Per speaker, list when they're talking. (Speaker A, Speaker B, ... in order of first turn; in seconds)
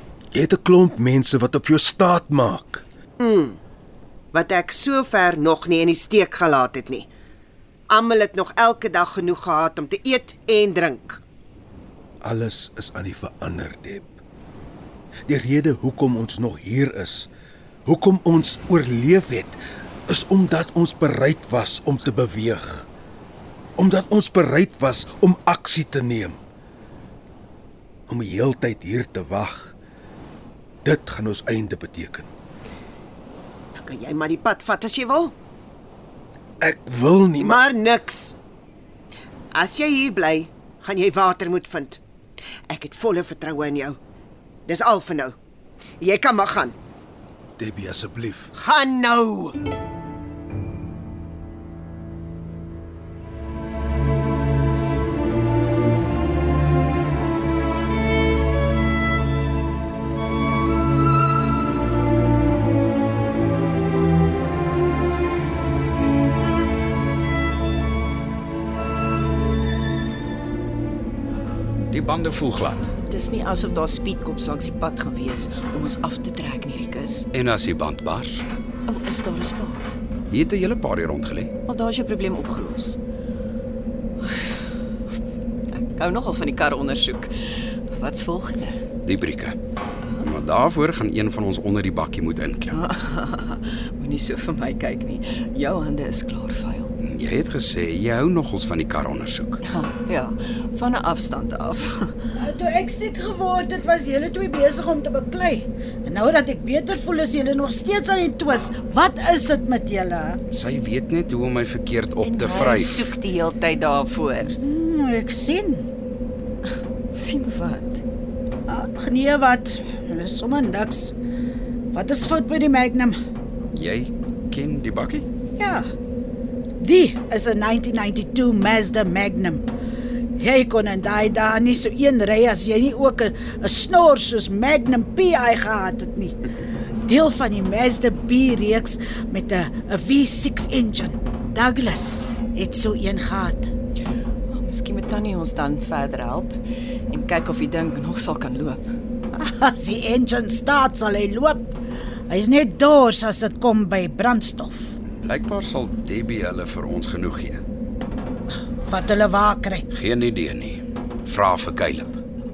Speaker A: 0.3-2.8, 12.2-14.1, 15.3-17.3, 17.9-22.9, 23.8-26.4, 28.1-29.8, 30.8-32.3, 36.6-37.6, 47.6-48.5
Speaker B: 3.2-3.6, 4.3-7.1, 7.9-11.2, 33.8-35.3, 37.4-38.4, 39.5-42.0, 42.7-44.0, 44.7-45.4, 46.0-46.8, 48.5-49.6
Speaker C: 71.9-72.9, 77.3-78.5, 80.3-81.5, 89.0-89.6, 90.2-92.8, 97.0-99.6, 110.5-113.2, 123.7-125.2, 155.2-157.6, 159.9-162.2
Speaker D: 73.0-77.3, 78.9-79.9, 81.7-83.0, 85.7-87.3, 87.9-88.8, 90.0-90.3, 92.7-97.0, 99.6-102.1, 112.2-114.6, 117.1-118.0, 144.5-146.6, 147.1-148.8
Speaker E: 102.4-110.4, 114.4-115.9, 118.7-121.2, 121.9-123.2, 125.6-125.9, 126.8-129.7, 130.4-136.4, 137.1-143.7, 149.4-151.7, 152.3-154.9, 158.8-159.8